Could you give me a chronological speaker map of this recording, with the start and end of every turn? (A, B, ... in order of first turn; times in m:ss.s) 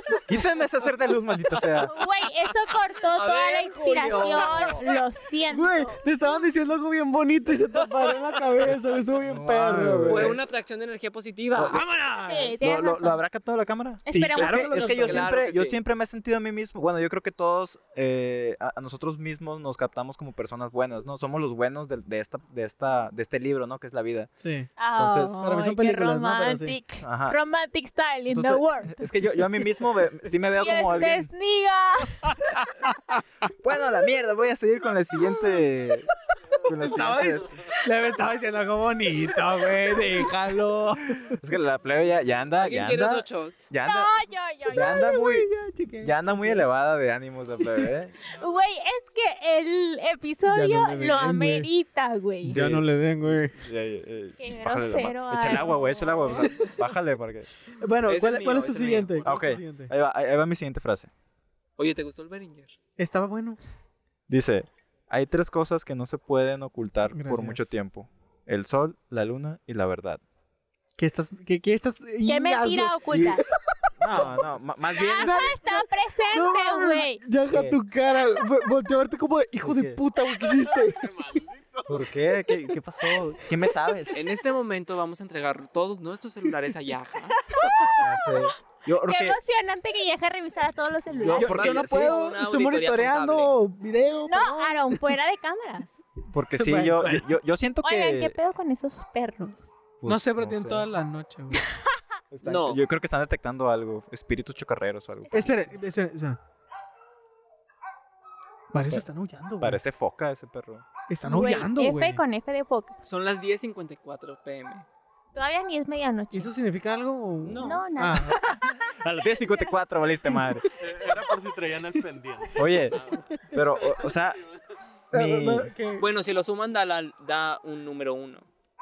0:00.2-0:01.9 A
0:01.8-0:06.0 B
0:03.1-0:05.0 C
0:05.5-0:10.4 D
0:09.2-0:10.4 A
0:10.0-0:11.8 C
0:11.5-0:11.8 A
0:11.7-0:12.6 D
0:12.2-0:13.2 B
0:12.6-0:24.3 A
0:14.0-0:14.8 B
0:14.1-0:15.3 D
0:14.9-0:15.8 C
0:24.4-0:24.7 D
0:24.8-0:29.1 B
0:25.0-0:25.4 A
0:25.3-0:26.8 D
0:27.0-0:27.4 A
0:28.3-0:31.3 A
0:30.6-0:32.3 B
0:33.5-0:36.1 A
0:36.6-0:37.5 A
0:36.8-0:41.4 D
0:41.3-0:45.5 A
0:42.6-0:43.6 C
0:43.8-0:45.2 B
0:44.8-0:46.7 D
0:46.0-0:48.1 A
0:48.3-0:52.6 B
0:50.5-0:51.7 D
0:52.4-0:53.6 D
0:52.5-0:57.5 A
0:54.4-0:56.6 B
0:57.7-0:59.9 D
0:58.0-0:59.4 C
0:59.2-1:01.1 A
1:01.8-1:02.8 C
1:03.0-1:03.6 D
1:04.3-1:10.2 A
1:07.1-1:07.8 D
1:11.0-1:13.4 D
1:12.2-1:13.4 B
1:13.1-1:13.4 A
1:14.0-1:15.5 A
1:14.1-1:21.1 D
1:14.9-1:17.2 B
1:17.5-1:17.8 A
1:19.6-1:20.0 A
1:20.6-1:22.0 E
1:21.9-1:24.2 A
1:24.1-1:27.4 C
1:28.0-1:29.4 A
1:29.0-1:31.5 B
1:31.1-1:32.2 A
1:31.3-1:33.5 C
1:31.3-1:35.0 D
1:34.3-1:35.9 B
1:36.3-1:38.4 A
1:36.6-1:37.3 D
1:37.8-1:39.6 B
1:40.0-1:40.9 A
1:40.0-1:41.7 D
1:42.3-1:45.6 A
1:42.4-1:42.8 C
1:45.3-1:46.4 D
1:48.7-1:49.8 D
1:49.6-1:50.8 A
1:51.1-1:52.2 D
1:51.2-1:53.0 B
1:53.0-1:54.8 C
1:55.3-1:56.5 B
1:56.3-1:58.4 D
1:57.4-1:57.8 C
1:57.6-1:58.2 B
1:58.3-2:00.6 A
2:00.8-2:03.2 E
2:02.6-2:04.4 A
2:05.1-2:05.7 A
2:05.1-2:06.0 D
2:06.0-2:08.5 C